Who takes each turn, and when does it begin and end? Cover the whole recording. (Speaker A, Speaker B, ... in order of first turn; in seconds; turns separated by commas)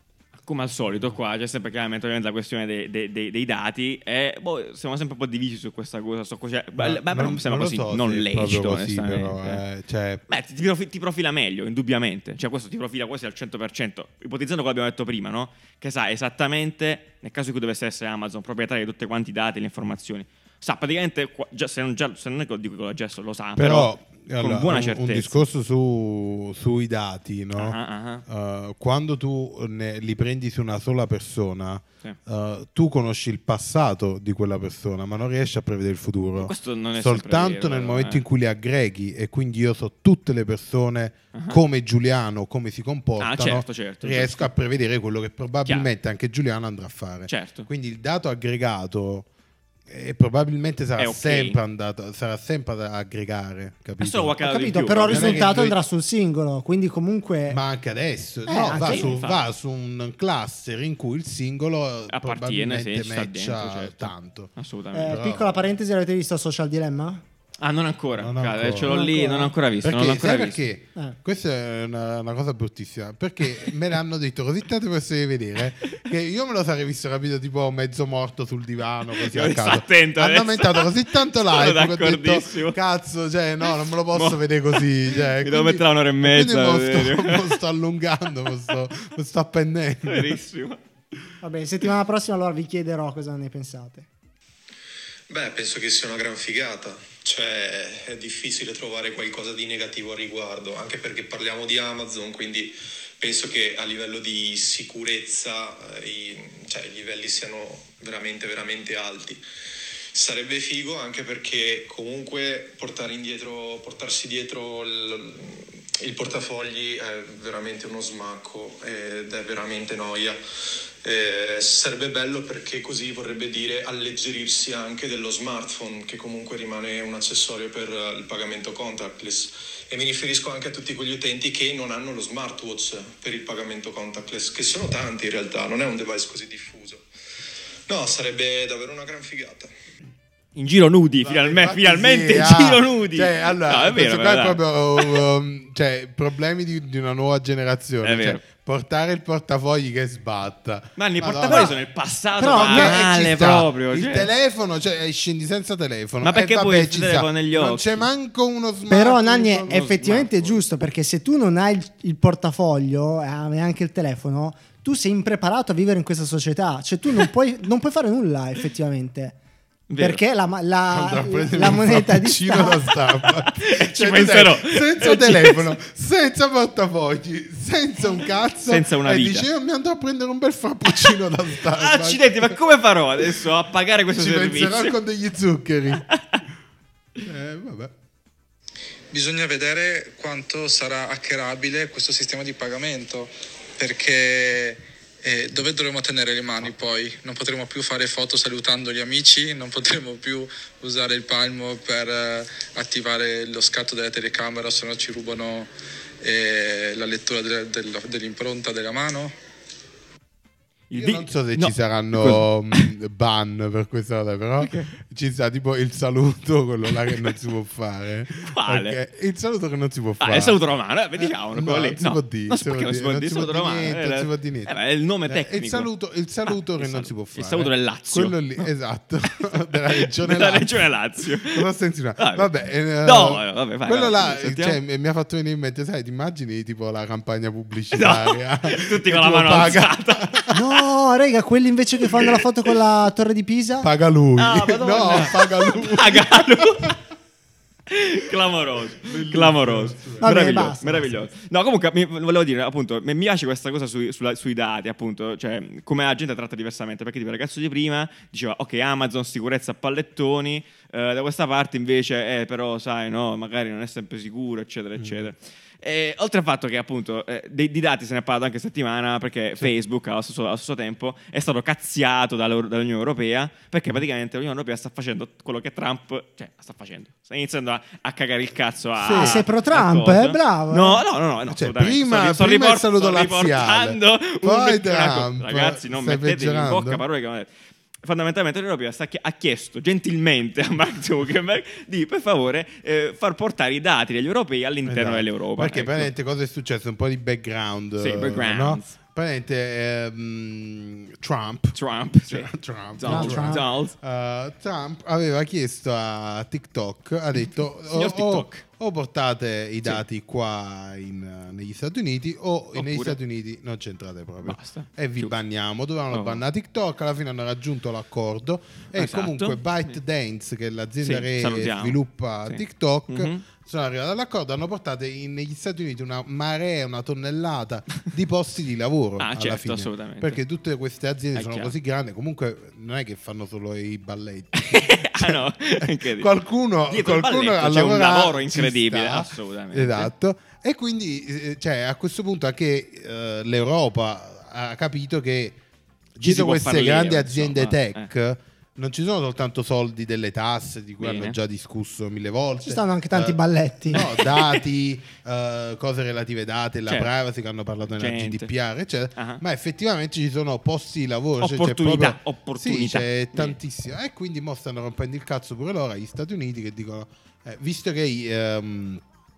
Speaker A: 0.4-9.6, Speaker B: 6.8-10.2, Speaker A: 10.3-25.3, Speaker B: 23.6-49.3, Speaker A: 27.5-28.2, Speaker A: 36.4-38.2, Speaker A: 41.3-41.6, Speaker A: 43.2-44.5, Speaker A: 47.3-47.7, Speaker B: 49.9-54.3, Speaker A: 51.0-51.6, Speaker A: 54.0-55.6, Speaker C: 54.4-57.6, Speaker B: 55.1-55.8, Speaker B: 57.5-64.5, Speaker C: 58.5-59.1, Speaker A: 58.8-59.4, Speaker A: 62.1-65.2, Speaker C: 64.9-67.2, Speaker B: 65.0-65.5, Speaker A: 67.6-70.6, Speaker B: 68.2-69.0, Speaker C: 68.9-69.5, Speaker B: 69.8-90.4, Speaker A: 79.2-82.8, Speaker A: 84.1-87.6, Speaker A: 90.0-90.8, Speaker C: 91.4-94.1, Speaker D: 95.3-109.4, Speaker D: 110.1-120.4, Speaker D: 121.0-137.0, Speaker D: 137.9-139.7, Speaker A: 140.6-145.2, Speaker B: 141.2-151.7, Speaker A: 148.0-148.4, Speaker A: 151.0-154.3, Speaker C: 151.4-151.7, Speaker C: 152.4-153.0, Speaker B: 152.5-160.0, Speaker A: 156.2-158.0, Speaker C: 158.9-169.4, Speaker A: 159.7-160.4, Speaker A: 169.9-170.2, Speaker C: 170.0-172.8, Speaker B: 170.9-182.6, Speaker A: 173.5-175.7, Speaker A: 178.7-179.5, Speaker A: 181.7-184.9, Speaker B: 184.1-186.1, Speaker A: 186.1-186.4, Speaker B: 187.2-187.9, Speaker E: 189.1-205.7, Speaker E: 206.2-209.3, Speaker A: 210.9-212.9, Speaker B: 210.9-220.6, Speaker A: 214.6-214.9, Speaker A: 218.4-219.0, Speaker A: 220.2-225.9, Speaker B: 221.2-224.7, Speaker B: 225.2-230.8, Speaker A: 226.5-228.7, Speaker A: 229.9-231.7, Speaker B: 231.4-240.5, Speaker A: 232.2-232.5, Speaker A: 233.0-234.8, Speaker A: 237.9-240.6, Speaker C: 240.5-243.9, Speaker B: 243.8-246.9, Speaker A: 244.4-247.0, Speaker A: 247.9-287.5, Speaker B: 249.0-250.3, Speaker C: 250.2-251.2, Speaker B: 265.0-265.3, Speaker B: 279.0-279.4, Speaker C: 279.1-281.0, Speaker B: 281.5-287.0, Speaker A: 288.0-296.1, Speaker B: 294.8-345.6, Speaker A: 298.0-298.9, Speaker A: 301.7-303.9, Speaker C: 303.0-303.6, Speaker A: 307.9-308.6, Speaker A: 312.7-313.2, Speaker A: 314.4-315.3, Speaker A: 316.1-316.4, Speaker A: 318.9-320.0, Speaker A: 321.0-323.4, Speaker A: 329.2-330.4, Speaker A: 331.3-331.7, Speaker A: 334.6-336.3, Speaker A: 336.9-340.1, Speaker B: 346.1-369.0, Speaker A: 346.2-348.1, Speaker A: 351.0-351.4, Speaker C: 352.6-354.0, Speaker A: 354.2-354.6, Speaker A: 358.0-358.5, Speaker A: 359.1-359.4, Speaker A: 361.4-363.6